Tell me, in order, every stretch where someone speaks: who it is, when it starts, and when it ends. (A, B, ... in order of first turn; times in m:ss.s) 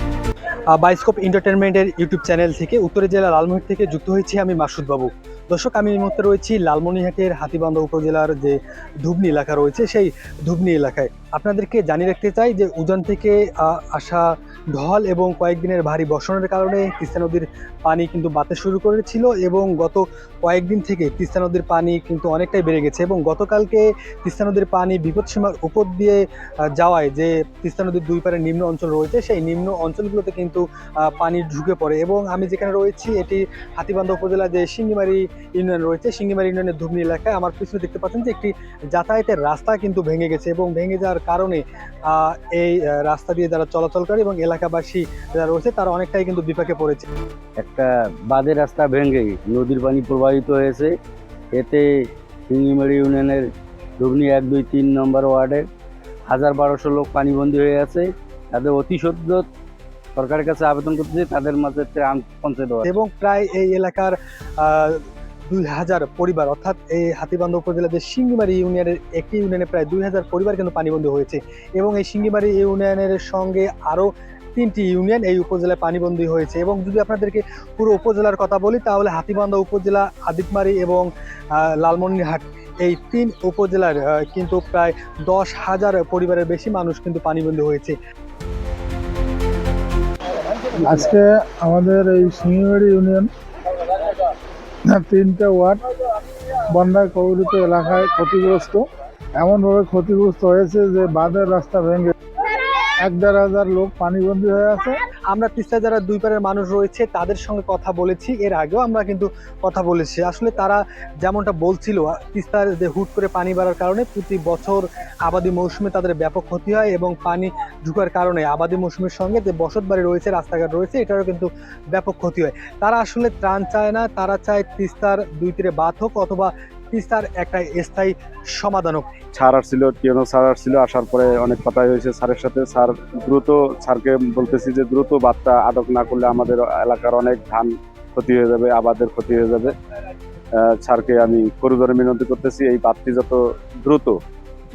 0:00.7-0:26.2 A
0:26.8-0:47.1 A
0:47.6-0:50.9 B
0:51.5-0:53.5 B
0:54.0-0:55.7 B
0:56.3-0:59.4 B
1:00.2-1:02.9 B
1:02.9-1:28.0 A
1:30.8-1:33.3 C
1:34.9-1:35.8 C
1:36.7-1:38.9 C
1:39.4-1:42.1 C
1:43.0-1:45.0 C
1:45.3-2:09.1 A
2:09.3-2:19.7 D
2:20.6-2:24.2 D